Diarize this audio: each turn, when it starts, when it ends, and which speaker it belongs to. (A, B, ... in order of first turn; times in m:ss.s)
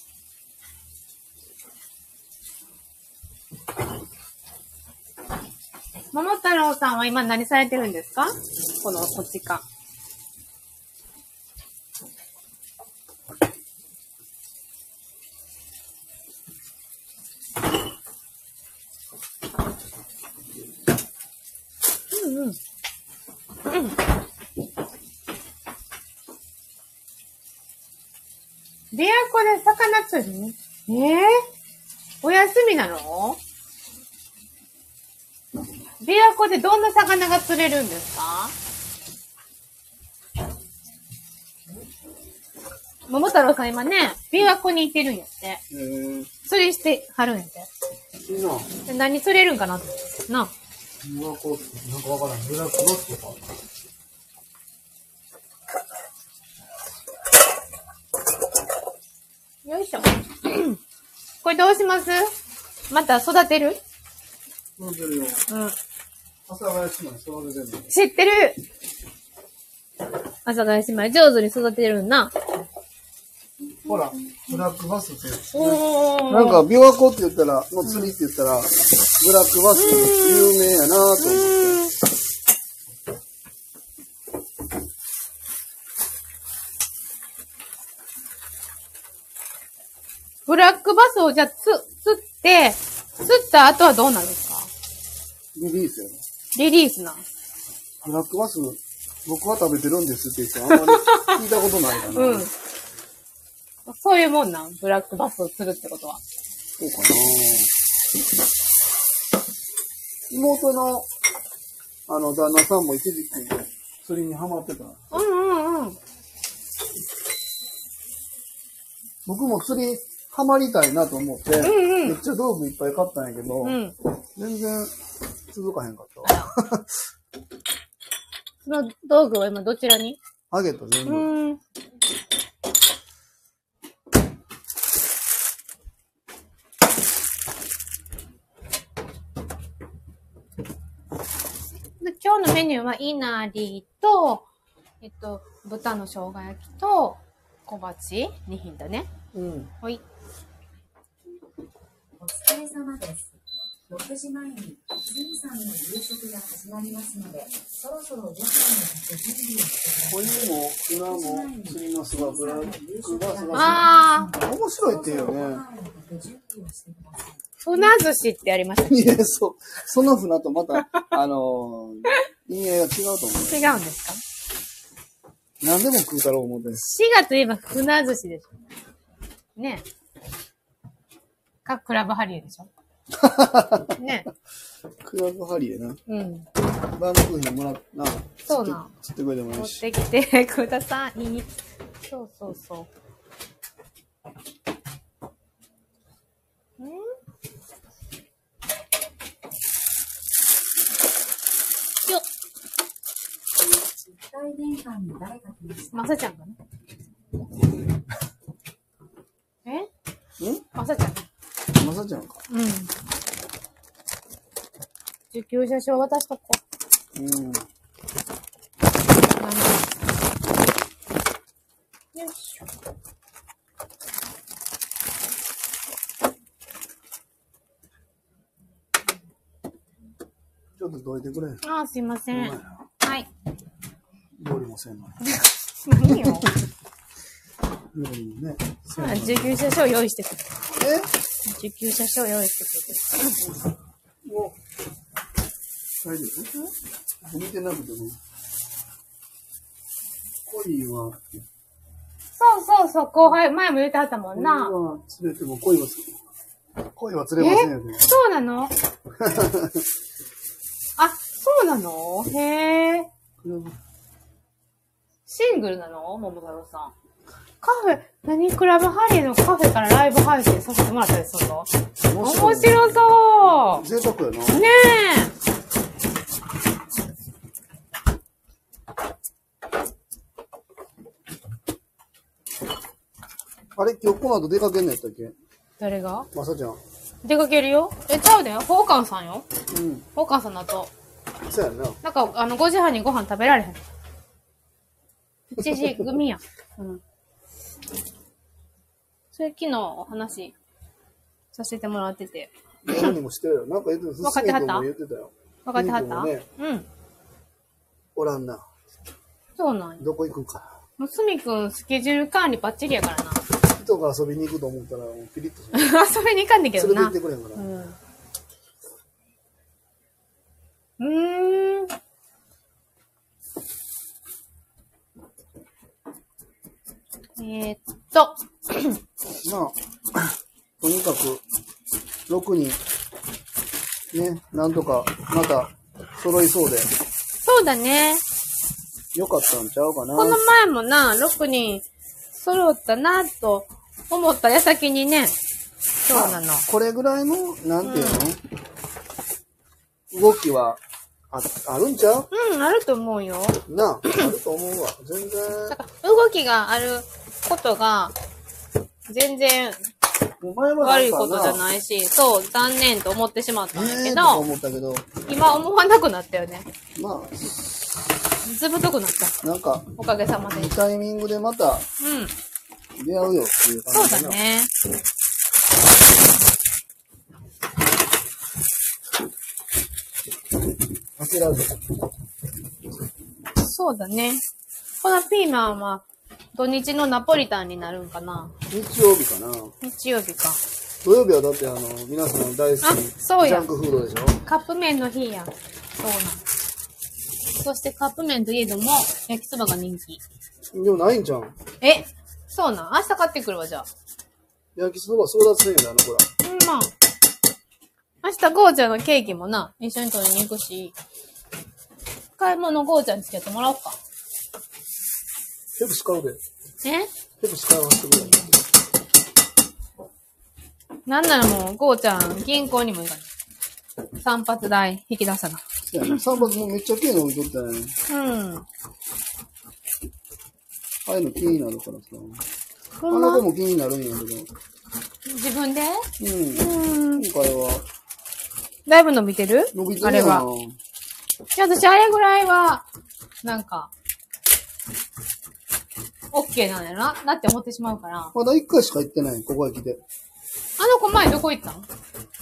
0:06.1-0:09.6 A
0:22.1-0:22.6 A
0:23.6-0:24.0 A
0:28.9-0:31.4 A
0:32.2-0:33.4 A
0:36.0-0:38.5 A
0:43.1-0:45.6 A
0:45.7-0:46.3 B
0:46.5-0:47.7 A
0:48.2-0:48.7 B
0:48.8-0:50.5 A
0:51.0-0:53.4 B
0:59.6-1:00.8 A
1:01.4-1:02.3 A
1:02.9-1:03.8 A
1:04.8-1:05.4 B
1:05.5-1:05.8 A
1:06.5-1:07.9 B
1:07.9-1:08.6 A
1:10.4-1:12.3 A
1:13.8-1:21.8 B
1:15.5-1:16.6 A
1:17.9-1:18.1 A
1:19.7-1:20.6 A
1:21.2-1:21.9 A
1:30.5-1:34.7 A
1:35.5-1:36.2 B
1:36.5-1:37.2 A
1:38.0-1:42.5 B
1:40.7-1:41.4 A
1:42.1-1:42.5 A
1:43.8-1:46.2 A
1:46.8-1:47.7 B
1:50.3-1:51.1 B
1:52.1-1:55.0 B
1:55.1-1:56.0 A
1:59.2-2:03.8 B
2:01.6-2:02.2 A
2:03.6-2:03.9 A
2:04.3-2:04.9 B
2:05.5-2:07.0 B
2:06.2-2:06.5 A
2:08.6-2:10.2 A
2:10.5-2:11.3 B
2:11.0-2:11.6 A
2:22.0-2:24.5 A
2:25.0-2:29.1 A
2:29.3-2:29.7 B
2:32.2-2:47.9 C
2:40.1-2:45.6 B
2:43.5-2:44.3 A
2:47.6-2:49.0 A
2:48.9-2:53.7 B
2:53.5-2:54.2 A
2:55.6-2:56.9 B
2:56.8-2:58.5 A
2:59.6-2:59.8 A
3:01.6-3:02.7 A
3:03.1-3:04.0 B
3:04.0-3:04.3 A
3:05.0-3:06.0 B
3:06.1-3:06.5 A
3:06.9-3:09.8 B
3:08.5-3:08.9 A
3:09.5-3:11.5 A
3:12.1-3:12.9 A
3:16.8-3:17.1 A
3:23.6-3:26.0 C
3:25.9-3:26.6 A
3:30.4-3:30.6 B
3:30.7-3:31.2 A
3:31.7-3:32.4 B
3:32.5-3:32.9 A
3:35.3-3:36.6 A
3:37.1-3:37.6 B
3:39.4-3:39.9 A
3:42.1-3:42.6 A
3:50.8-3:51.6 B
3:51.6-3:53.3 A
3:52.3-3:52.8 B
3:54.4-3:56.5 B
3:55.2-3:56.5 A
3:57.9-3:59.6 B
3:59.0-4:00.4 A
4:00.7-4:01.1 B
4:01.4-4:03.4 A
4:04.2-4:04.6 B
4:06.0-4:06.5 B
4:07.2-4:08.2 B
4:10.4-4:11.2 B
4:12.4-4:14.7 A
4:14.3-4:16.2 B
4:16.9-4:18.1 B
4:17.4-4:18.7 A
4:19.2-4:19.8 B
4:21.0-4:23.1 A
4:23.4-4:23.8 B
4:25.3-4:26.9 A
4:27.6-4:31.7 A
4:32.0-4:34.6 B
4:32.2-4:33.8 A
4:34.5-4:35.3 A
4:43.8-4:45.3 B
4:45.8-4:46.3 A
4:46.3-4:46.8 B
4:47.2-4:49.4 A
4:49.7-4:50.0 B
4:50.1-4:50.9 A
4:51.5-4:52.0 B
4:52.0-4:53.8 A
4:55.5-4:57.0 A
4:55.6-4:56.0 B
4:59.3-5:00.5 A
5:01.5-5:03.1 A
5:02.8-5:06.4 B
5:04.2-5:04.9 A
5:05.6-5:06.9 A
5:08.1-5:08.6 B
5:09.6-5:10.0 A
5:10.0-5:10.8 B
5:11.0-5:13.4 A
5:13.7-5:15.9 B
5:15.7-5:17.9 A
5:16.8-5:17.7 B
5:21.0-5:21.9 A
5:27.4-5:29.0 A
5:29.4-5:31.4 B
5:32.3-5:32.8 B
5:34.1-5:36.9 B
5:37.4-5:38.2 A
5:39.1-5:40.4 B
5:40.1-5:45.4 A
5:46.0-5:46.6 A
5:46.1-5:48.4 B
5:47.8-5:48.2 A
5:50.1-5:52.3 B
5:52.3-5:54.3 A
5:53.6-5:55.8 B
5:55.7-5:58.2 A
5:59.1-5:59.9 A
6:00.4-6:01.6 B
6:00.8-6:04.4 A
6:03.7-6:05.0 B
6:05.3-6:06.7 A
6:06.9-6:08.0 B
6:08.4-6:09.3 A
6:09.4-6:09.9 B
6:10.0-6:10.7 A
6:10.5-6:11.9 B
6:12.0-6:12.3 A
6:13.0-6:14.4 B
6:13.9-6:14.7 A
6:21.2-6:21.8 B
6:23.6-6:24.4 A
6:25.0-6:28.5 A
6:28.7-6:29.7 B
6:29.8-6:30.6 A
6:31.0-6:34.4 B
6:32.8-6:33.7 A
6:34.4-6:36.4 A
6:37.6-6:40.2 A
6:40.7-6:41.5 B
6:41.8-6:43.9 A
6:44.7-6:46.3 B
6:46.4-6:46.9 A
6:48.2-6:50.9 A
6:52.4-6:54.0 A
6:55.8-6:56.4 B
6:56.8-6:57.1 A
6:57.4-6:58.5 B
7:01.1-7:03.3 A
7:04.2-7:06.5 A
7:05.8-7:07.9 B
7:08.1-7:08.6 A
7:11.0-7:12.4 B
7:13.0-7:13.4 A
7:13.1-7:14.5 B
7:15.2-7:17.2 A
7:16.2-7:17.8 B
7:18.9-7:20.4 A
7:19.7-7:20.8 B
7:21.5-7:22.8 A
7:23.4-7:23.9 A
7:26.3-7:28.3 A
7:28.3-7:30.0 B
7:30.8-7:31.8 A